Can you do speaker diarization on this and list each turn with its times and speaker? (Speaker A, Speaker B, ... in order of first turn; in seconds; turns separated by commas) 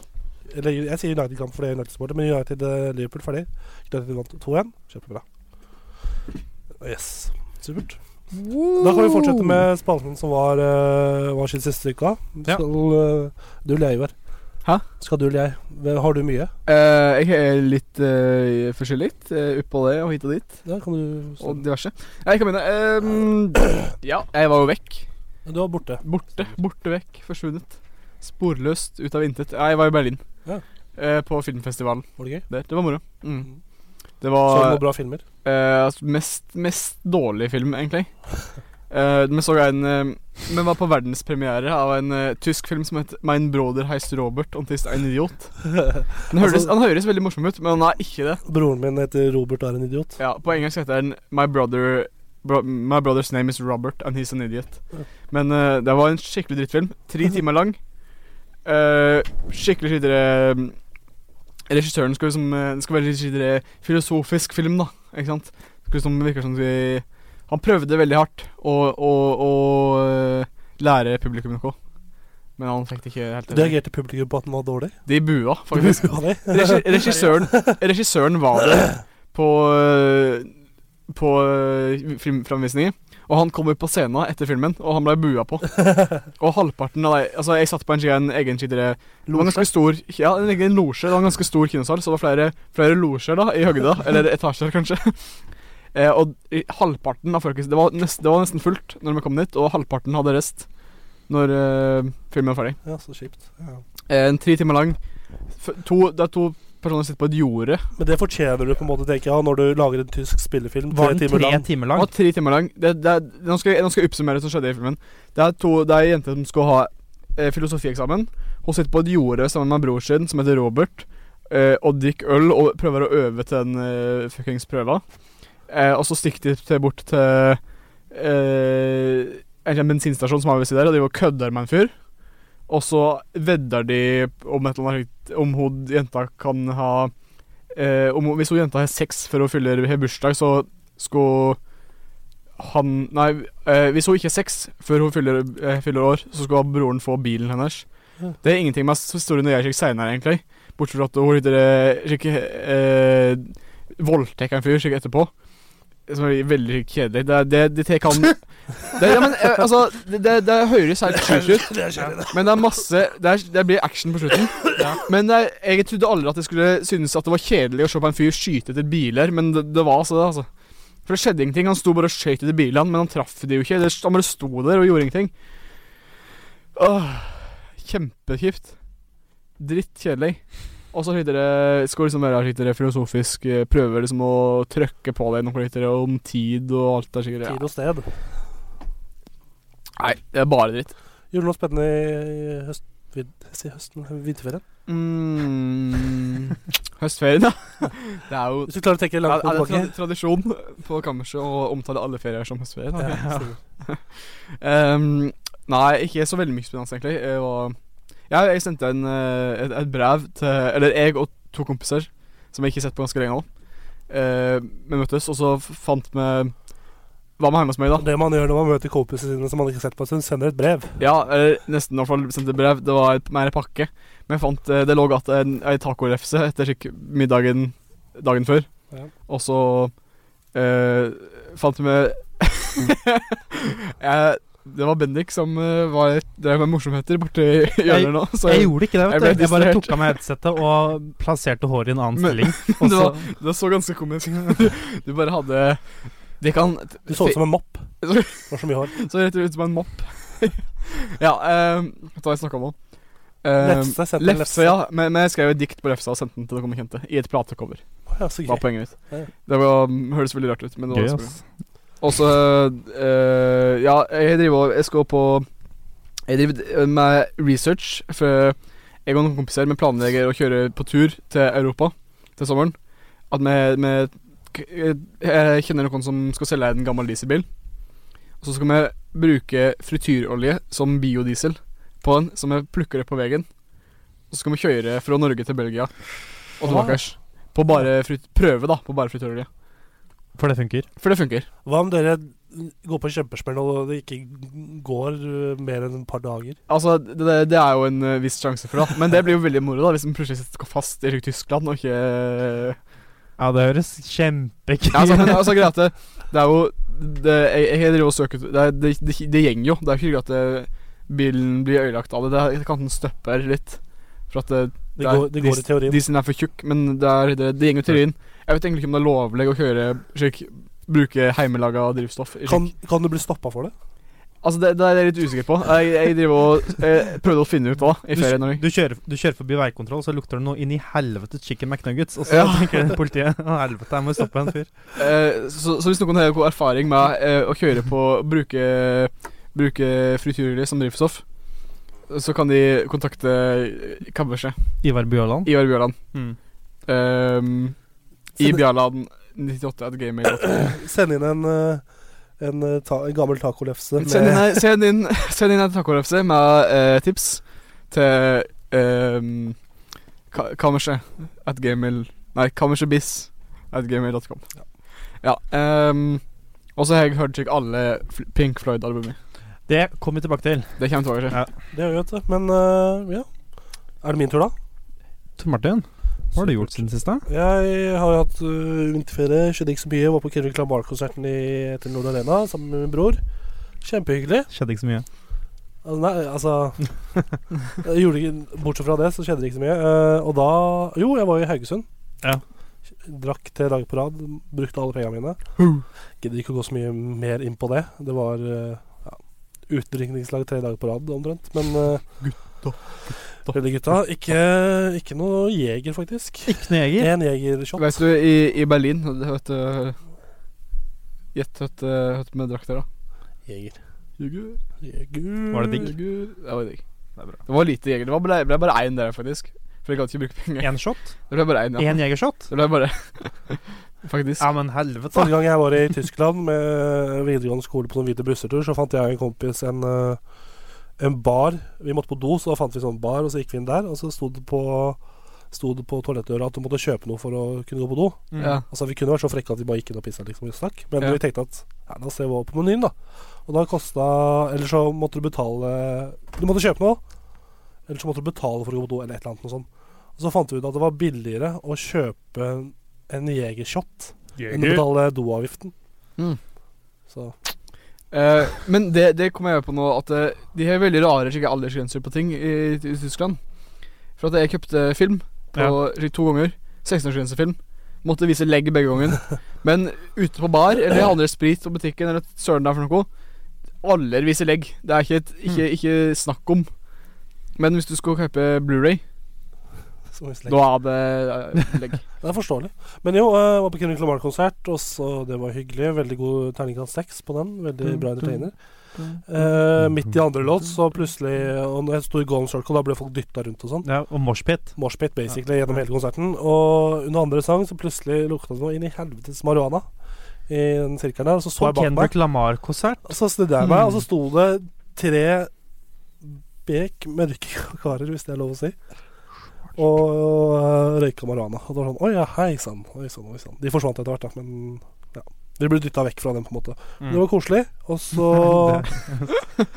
Speaker A: 0.5-5.2, Speaker A: 6.8-8.0, Speaker B: 8.3-9.6, Speaker A: 8.8-14.1, Speaker A: 15.0-16.5, Speaker C: 16.7-20.6, Speaker A: 20.6-21.6, Speaker C: 21.4-25.1, Speaker A: 25.5-26.5, Speaker C: 26.0-30.2, Speaker C: 31.0-33.5, Speaker A: 32.2-32.5, Speaker C: 34.2-34.9, Speaker A: 34.5-35.2, Speaker C: 35.4-38.2, Speaker C: 38.9-45.7, Speaker A: 45.8-46.7, Speaker C: 46.3-48.4, Speaker A: 48.5-50.2, Speaker C: 50.2-57.8, Speaker C: 58.6-60.8, Speaker C: 61.7-71.8, Speaker C: 72.6-73.8, Speaker A: 73.5-75.0, Speaker C: 75.1-80.5, Speaker A: 75.7-77.8, Speaker C: 81.1-95.2, Speaker A: 89.3-89.7, Speaker C: 95.9-100.7, Speaker C: 101.3-102.8, Speaker A: 102.8-103.8, Speaker C: 104.1-105.0, Speaker C: 105.6-107.9, Speaker A: 108.0-111.7, Speaker B: 110.9-112.1, Speaker C: 112.0-125.0, Speaker C: 125.7-131.9, Speaker C: 132.7-137.1, Speaker C: 137.7-141.6, Speaker C: 142.6-147.8, Speaker C: 148.4-155.3, Speaker C: 156.1-170.5, Speaker A: 161.7-162.3, Speaker C: 171.1-175.3, Speaker C: 176.8-178.8, Speaker C: 179.6-187.6, Speaker A: 187.4-188.1, Speaker C: 190.0-190.9, Speaker A: 191.3-194.6, Speaker C: 194.9-207.8, Speaker A: 198.7-199.9, Speaker A: 203.0-203.5, Speaker B: 203.0-203.5, Speaker C: 208.3-213.5, Speaker C: 214.1-216.6, Speaker C: 217.4-218.1, Speaker A: 218.0-221.0, Speaker C: 221.0-228.7, Speaker C: 229.3-229.9, Speaker C: 230.5-240.1, Speaker B: 237.8-243.2, Speaker C: 242.2-245.8, Speaker C: 246.4-247.4, Speaker A: 247.1-248.9, Speaker C: 248.0-252.8, Speaker C: 253.4-257.8, Speaker A: 253.6-254.8, Speaker A: 258.1-259.3, Speaker C: 258.4-261.4, Speaker B: 260.9-261.4, Speaker C: 262.0-265.5, Speaker C: 266.3-272.8, Speaker C: 273.3-277.5, Speaker C: 278.4-283.5, Speaker C: 284.3-285.9, Speaker C: 286.6-289.5, Speaker A: 286.6-287.0, Speaker B: 290.4-290.9, Speaker C: 291.0-291.5, Speaker A: 291.6-296.6, Speaker C: 296.7-302.8, Speaker B: 303.4-305.6, Speaker C: 304.9-322.7, Speaker A: 315.0-316.0, Speaker A: 322.5-323.7, Speaker C: 324.4-328.6, Speaker B: 328.1-334.7, Speaker C: 332.3-332.9, Speaker C: 335.0-341.2, Speaker C: 342.1-344.6, Speaker B: 344.8-345.5, Speaker C: 345.4-346.0, Speaker C: 346.9-347.8, Speaker C: 348.4-350.7, Speaker A: 350.3-351.8, Speaker A: 352.4-354.6, Speaker C: 354.0-359.6, Speaker C: 360.3-364.5, Speaker C: 365.2-366.2, Speaker C: 366.8-369.2, Speaker B: 369.7-370.8, Speaker C: 370.8-371.4, Speaker A: 371.7-373.3, Speaker A: 374.0-374.5, Speaker B: 375.4-377.3, Speaker A: 376.4-383.2, Speaker A: 383.8-384.5, Speaker B: 384.5-385.1, Speaker A: 385.9-386.9, Speaker A: 387.8-391.9, Speaker A: 393.1-395.4, Speaker A: 396.2-402.1, Speaker C: 402.2-403.5, Speaker A: 403.5-408.0, Speaker B: 406.5-407.1, Speaker C: 407.8-410.0, Speaker C: 411.3-412.9, Speaker A: 413.5-413.8, Speaker C: 414.2-414.6, Speaker A: 414.8-415.9, Speaker B: 415.5-415.9, Speaker C: 415.8-416.8, Speaker C: 417.4-424.5, Speaker B: 420.6-421.1, Speaker B: 421.8-422.5, Speaker B: 424.4-425.3, Speaker A: 425.1-430.2, Speaker A: 431.0-435.0, Speaker A: 435.5-447.0, Speaker B: 438.3-438.6, Speaker C: 438.4-438.6, Speaker A: 447.9-455.7, Speaker A: 457.1-457.3, Speaker C: 458.1-463.4, Speaker C: 464.2-473.1, Speaker C: 473.8-476.7, Speaker C: 477.6-479.0, Speaker A: 480.1-480.6, Speaker C: 480.5-482.0, Speaker A: 482.2-488.6, Speaker B: 487.9-488.4, Speaker B: 489.0-490.1, Speaker A: 489.3-493.9, Speaker B: 493.9-494.7, Speaker A: 494.8-499.9, Speaker A: 500.5-502.1, Speaker B: 501.6-503.1, Speaker A: 503.1-505.5, Speaker A: 506.3-508.8, Speaker A: 509.8-519.0, Speaker B: 518.6-519.3